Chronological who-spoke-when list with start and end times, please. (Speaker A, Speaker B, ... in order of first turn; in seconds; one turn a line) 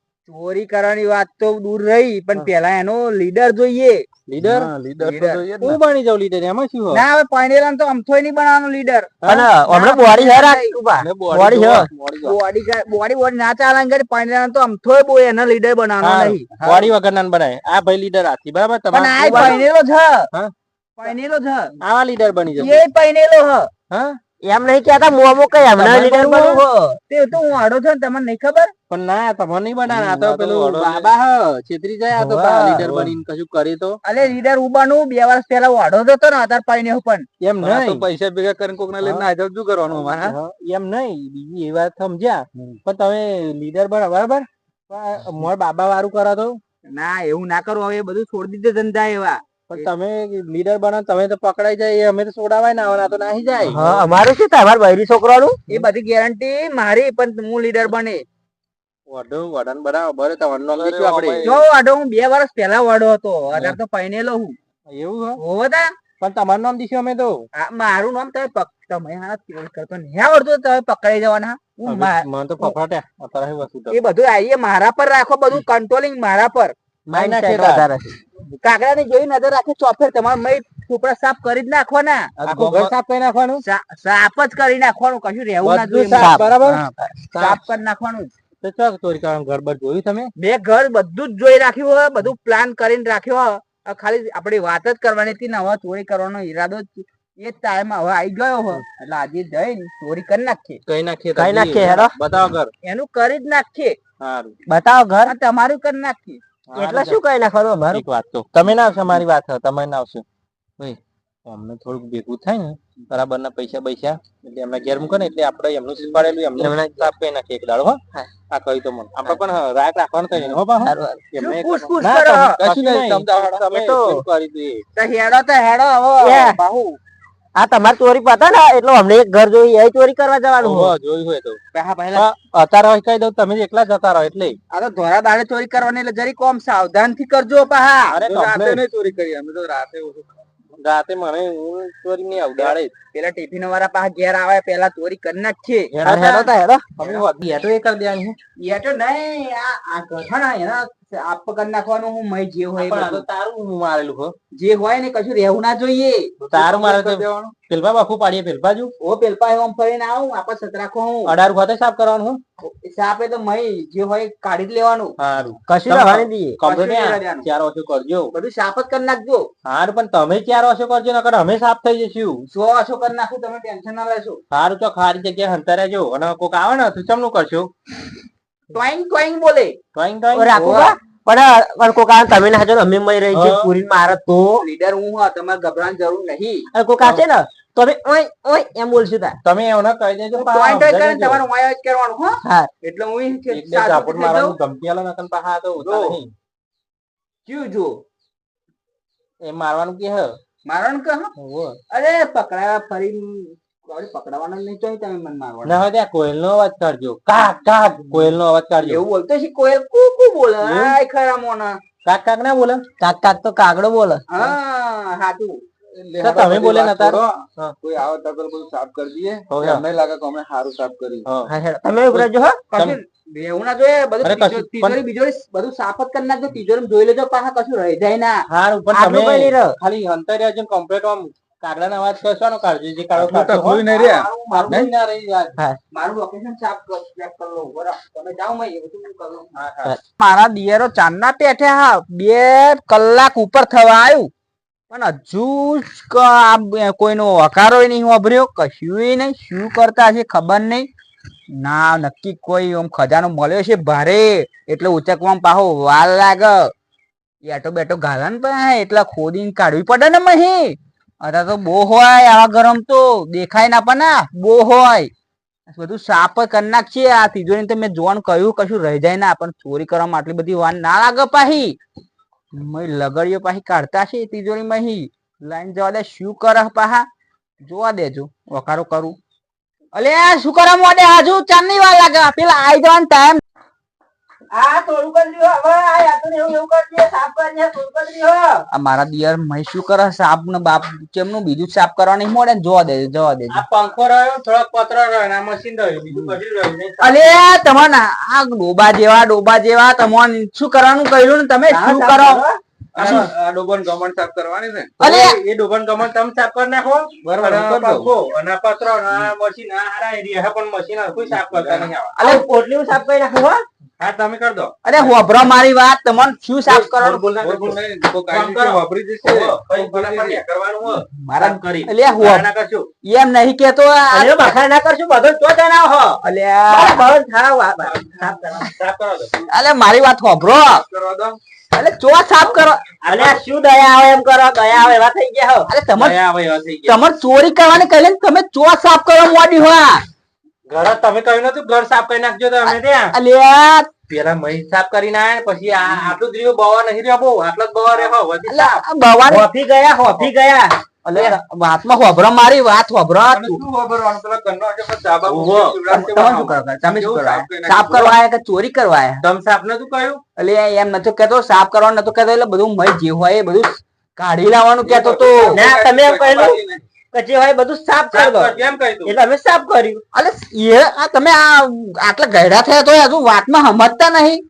Speaker A: 0.3-4.1
Speaker B: 4.3-4.7
Speaker C: 4.4-5.4
Speaker A: 5.0-5.8
Speaker B: 5.6-7.0
Speaker A: 6.9-10.8
Speaker B: 9.2-9.5
Speaker D: 9.2-11.9
Speaker B: 11.0-12.3
Speaker A: 12.2-16.8
Speaker B: 16.0-19.6
Speaker A: 18.9-20.3
Speaker A: 21.0-21.7
Speaker B: 21.8-22.8
Speaker A: 22.6-23.7
Speaker B: 23.9-24.2
Speaker D: 24.4-26.7
Speaker A: 25.7-28.7
Speaker B: 28.9-34.0
Speaker A: 30.3-31.3
Speaker A: 32.1-32.9
Speaker D: 32.7-33.0
Speaker A: 34.0-37.2
Speaker B: 37.4-38.0
Speaker C: 37.6-40.4
Speaker B: 39.9-46.6
Speaker A: 46.9-49.9
Speaker B: 49.7-54.0
Speaker D: 53.7-55.6
Speaker A: 55.7-58.2
Speaker B: 59.1-61.4
Speaker C: 60.7-61.6
Speaker A: 61.4-64.5
Speaker B: 64.9-65.4
Speaker A: 65.4-65.9
Speaker B: 66.2-67.4
Speaker A: 67.5-72.7
Speaker B: 71.8-74.0
Speaker A: 73.9-76.7
Speaker B: 77.1-77.8
Speaker D: 77.1-78.1
Speaker A: 78.6-82.9
Speaker B: 82.4-83.6
Speaker A: 83.6-88.3
Speaker B: 85.6-87.6
Speaker B: 88.6-90.3
Speaker A: 90.4-100.8
Speaker B: 100.8-102.7
Speaker D: 101.3-102.1
Speaker A: 102.8-104.0
Speaker B: 104.2-104.5
Speaker D: 104.7-105.3
Speaker A: 105.2-106.4
Speaker B: 106.7-107.2
Speaker D: 106.8-108.0
Speaker B: 107.9-110.2
Speaker B: 110.8-124.8
Speaker D: 116.5-117.1
Speaker D: 120.8-121.2
Speaker A: 121.3-122.6
Speaker C: 122.6-123.7
Speaker D: 123.7-124.2
Speaker A: 125.0-127.0
Speaker D: 126.2-126.6
Speaker D: 127.5-130.9
Speaker B: 130.6-131.6
Speaker A: 131.7-132.3
Speaker B: 132.1-134.6
Speaker A: 134.7-138.2
Speaker B: 138.1-138.8
Speaker C: 138.2-140.4
Speaker B: 140.8-142.9
Speaker A: 142.7-145.9
Speaker B: 145.9-148.3
Speaker D: 146.0-146.9
Speaker A: 148.6-153.2
Speaker B: 152.8-154.3
Speaker A: 154.5-156.3
Speaker C: 156.4-157.5
Speaker B: 156.5-158.9
Speaker A: 159.0-161.3
Speaker B: 161.2-162.4
Speaker A: 162.6-165.2
Speaker B: 165.2-168.3
Speaker D: 165.7-166.6
Speaker A: 166.6-167.4
Speaker A: 168.3-169.5
Speaker B: 169.7-172.4
Speaker A: 172.5-174.4
Speaker B: 174.5-177.7
Speaker A: 178.7-179.8
Speaker B: 179.9-180.5
Speaker D: 180.3-184.6
Speaker A: 180.5-180.9
Speaker B: 183.3-183.7
Speaker A: 184.6-186.7
Speaker D: 186.7-189.4
Speaker B: 189.4-191.4
Speaker A: 190.3-194.6
Speaker D: 192.4-192.7
Speaker B: 193.5-196.3
Speaker A: 197.4-198.0
Speaker B: 199.4-200.3
Speaker A: 200.6-201.3
Speaker B: 201.4-201.8
Speaker A: 201.9-205.8
Speaker B: 205.6-209.0
Speaker A: 208.8-211.8
Speaker B: 210.6-210.9
Speaker B: 212.0-212.8
Speaker D: 213.0-214.2
Speaker A: 214.3-215.6
Speaker C: 215.9-221.3
Speaker B: 216.2-217.7
Speaker B: 219.5-219.8
Speaker D: 221.5-222.6
Speaker B: 222.1-223.0
Speaker A: 222.7-228.4
Speaker B: 224.2-225.0
Speaker B: 228.5-233.8
Speaker D: 228.9-229.8
Speaker C: 233.2-234.9
Speaker A: 233.8-234.9
Speaker B: 235.0-235.5
Speaker A: 235.9-239.5
Speaker B: 239.5-239.9
Speaker A: 240.2-244.3
Speaker A: 244.9-250.9
Speaker A: 251.5-256.7
Speaker A: 257.4-265.1
Speaker A: 265.7-271.8
Speaker A: 272.5-277.1
Speaker A: 277.6-279.1
Speaker A: 279.9-283.4
Speaker D: 284.5-288.6
Speaker A: 288.7-293.6
Speaker B: 293.5-297.4
Speaker A: 297.0-302.4
Speaker D: 301.7-302.6
Speaker C: 302.9-304.9
Speaker B: 303.0-303.3
Speaker A: 305.0-305.4
Speaker B: 305.0-312.1
Speaker C: 307.3-308.1
Speaker C: 311.3-311.9
Speaker A: 312.1-312.4
Speaker D: 312.2-313.6
Speaker B: 314.0-315.1
Speaker A: 314.8-317.2
Speaker B: 316.6-322.9
Speaker C: 317.3-320.4
Speaker A: 321.2-322.5
Speaker A: 323.0-324.4
Speaker D: 324.1-328.7
Speaker A: 326.2-327.0
Speaker B: 327.8-329.3
Speaker A: 329.5-330.8
Speaker C: 330.7-331.4
Speaker A: 331.7-332.8
Speaker B: 333.0-333.4
Speaker D: 333.0-335.7
Speaker A: 335.7-336.2
Speaker B: 335.9-337.0
Speaker A: 336.9-340.0
Speaker B: 340.7-343.1
Speaker A: 343.1-343.9
Speaker B: 344.1-348.8
Speaker A: 348.5-349.5
Speaker D: 349.3-350.8
Speaker A: 351.0-353.6
Speaker C: 353.3-358.1
Speaker B: 355.2-355.8
Speaker A: 355.9-359.2
Speaker B: 359.2-360.2
Speaker A: 360.4-365.6
Speaker C: 364.8-366.8
Speaker D: 365.5-366.6
Speaker D: 367.1-370.0
Speaker B: 368.1-369.2
Speaker A: 370.1-374.4